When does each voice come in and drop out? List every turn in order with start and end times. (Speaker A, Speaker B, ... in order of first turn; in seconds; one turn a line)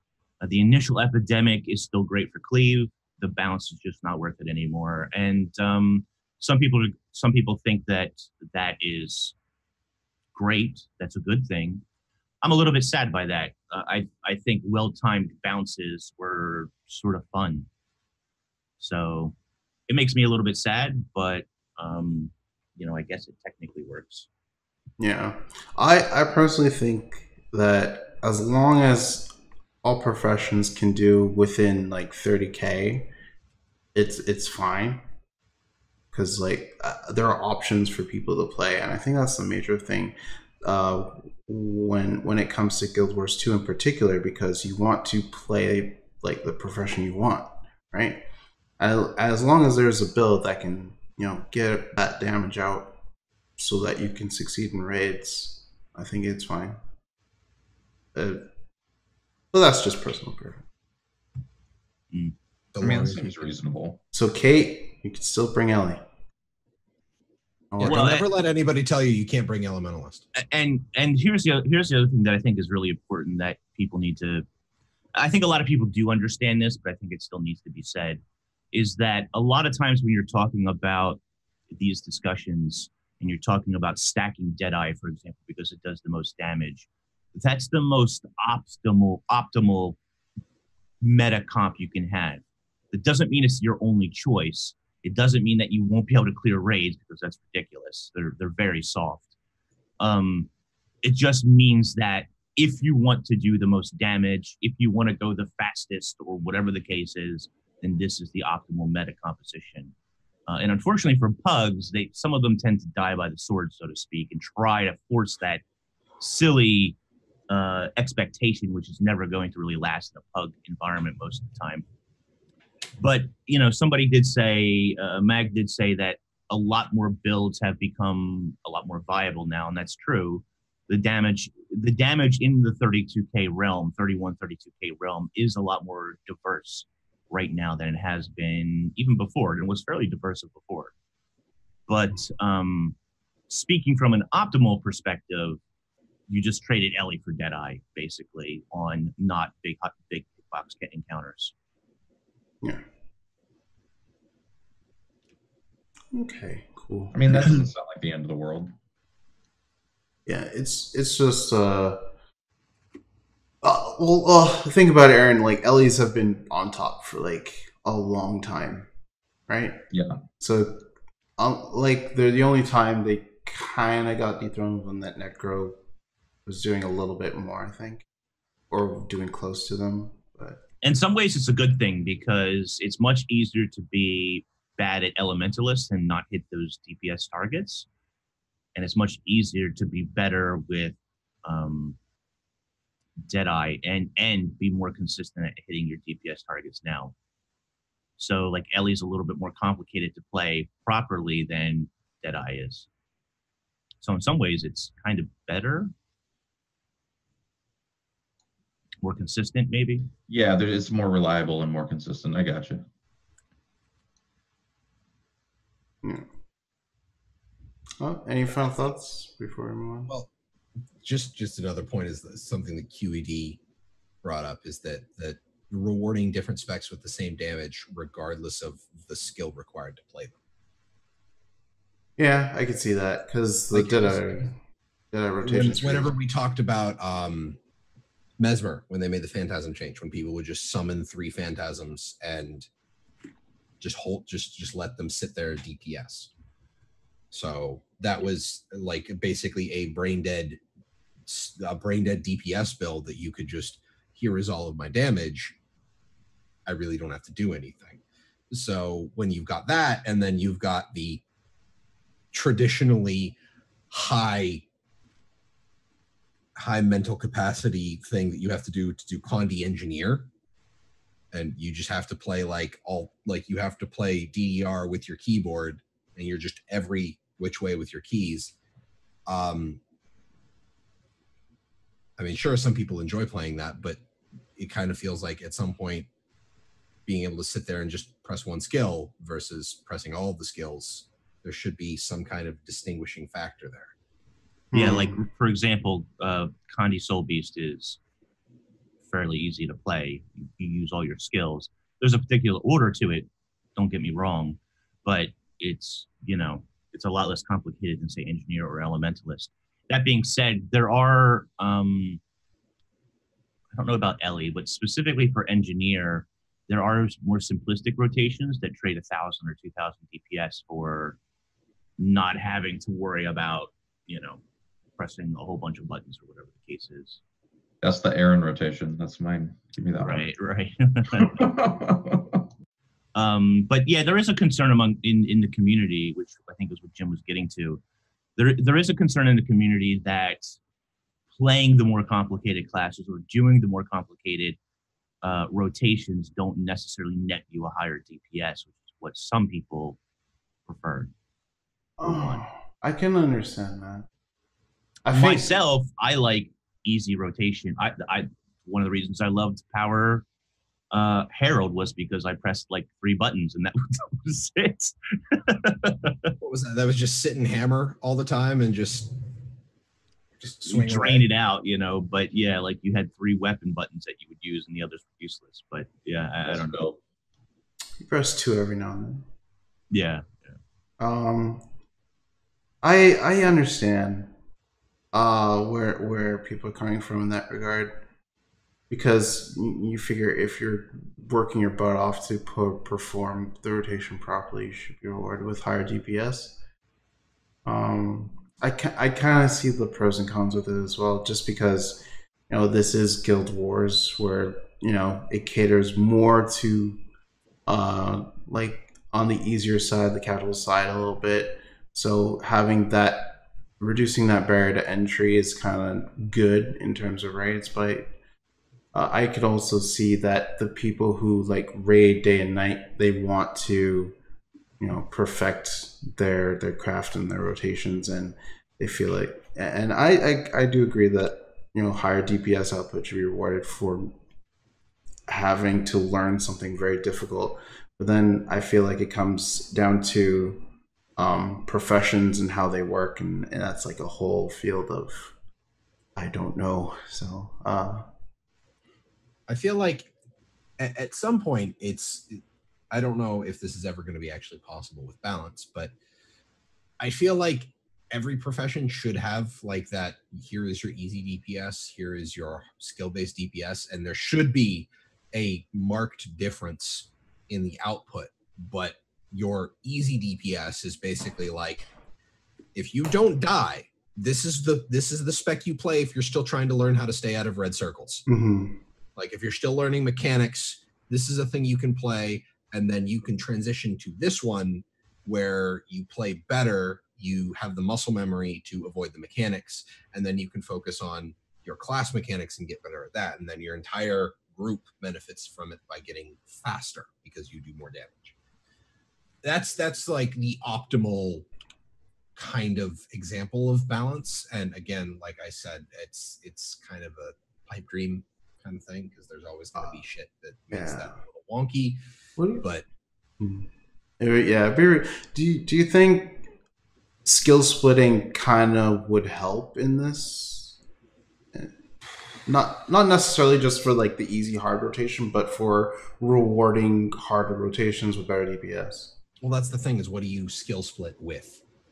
Speaker A: 0.4-9.3
Speaker A: 10.3-11.8
Speaker A: 12.4-17.7
Speaker A: 18.8-19.3
Speaker A: 19.9-24.3
Speaker B: 25.0-29.3
Speaker B: 29.8-33.1
Speaker B: 33.9-35.0
Speaker B: 36.1-48.2
Speaker B: 48.8-53.0
Speaker B: 53.6-56.8
Speaker B: 58.1-58.4
Speaker B: 59.5-60.6
Speaker C: 62.7-63.5
Speaker D: 62.8-64.0
Speaker B: 64.1-66.0
Speaker B: 67.7-68.0
Speaker C: 67.8-70.3
Speaker A: 67.8-68.3
Speaker A: 70.3-74.5
Speaker A: 75.1-78.2
Speaker A: 78.7-90.0
Speaker A: 91.0-99.3
Speaker A: 100.0-100.5
Speaker A: 101.0-109.9
Speaker A: 110.5-115.6
Speaker A: 116.2-117.0
Speaker A: 117.5-121.8
Speaker A: 123.0-140.9
Speaker A: 141.9-142.9
Speaker A: 143.5-145.6
Speaker A: 146.3-151.5
Speaker B: 156.1-157.6
Speaker D: 157.1-158.7
Speaker B: 160.2-162.0
Speaker B: 163.6-168.9
Speaker B: 169.5-169.8
Speaker D: 169.9-170.2
Speaker B: 170.4-170.8
Speaker B: 171.4-175.8
Speaker B: 176.4-178.0
Speaker B: 178.7-180.6
Speaker A: 180.8-187.9
Speaker A: 188.7-192.0
Speaker A: 193.2-197.1
Speaker A: 198.2-202.9
Speaker A: 204.0-205.9
Speaker A: 209.0-210.1
Speaker D: 210.3-212.8
Speaker B: 218.0-220.1
Speaker C: 221.0-223.6
Speaker C: 224.2-230.3
Speaker B: 232.2-234.6
Speaker C: 233.7-234.5
Speaker B: 235.1-236.1
Speaker C: 235.4-237.6
Speaker C: 238.4-242.7
Speaker C: 243.8-246.3
Speaker C: 247.3-250.6
Speaker C: 251.2-255.5
Speaker C: 256.6-261.2
Speaker C: 262.3-263.4
Speaker C: 263.9-264.6
Speaker C: 266.6-270.3
Speaker C: 271.3-278.5
Speaker C: 279.3-279.8
Speaker C: 282.2-284.0
Speaker C: 284.5-286.1
Speaker C: 287.1-293.9
Speaker B: 294.7-295.2
Speaker A: 294.7-298.0
Speaker A: 299.1-312.2
Speaker A: 313.8-321.2
Speaker A: 322.0-324.4
Speaker A: 325.0-327.2
Speaker D: 327.8-330.3
Speaker A: 330.0-331.4
Speaker D: 331.2-332.4
Speaker A: 333.1-337.8
Speaker A: 338.4-340.6
Speaker A: 341.3-344.6
Speaker A: 345.2-350.0
Speaker A: 350.7-351.1
Speaker B: 352.0-354.1
Speaker A: 352.0-352.4
Speaker B: 355.0-355.5
Speaker A: 355.1-360.2
Speaker A: 360.9-366.3
Speaker C: 366.4-369.1
Speaker C: 370.4-371.2
Speaker A: 370.6-376.9
Speaker D: 376.4-376.9
Speaker B: 378.0-379.2
Speaker A: 379.9-380.6
Speaker B: 381.0-381.6
Speaker B: 382.8-384.3
Speaker B: 385.1-388.0
Speaker B: 388.9-396.6
Speaker B: 397.6-407.0
Speaker B: 407.7-418.1
Speaker B: 418.9-424.1
Speaker B: 424.8-434.2
Speaker B: 435.3-440.6
Speaker B: 441.2-445.3
Speaker B: 446.1-448.1
Speaker C: 449.5-450.1
Speaker C: 450.8-455.9
Speaker C: 457.0-471.9
Speaker C: 472.7-478.2
Speaker B: 478.3-478.8
Speaker C: 479.1-498.3
Speaker C: 499.4-501.5
Speaker C: 502.3-512.0
Speaker B: 510.7-511.2
Speaker B: 512.4-512.6
Speaker B: 513.4-513.7
Speaker B: 514.2-516.4
Speaker B: 517.2-520.8
Speaker B: 522.5-529.1
Speaker C: 529.4-531.6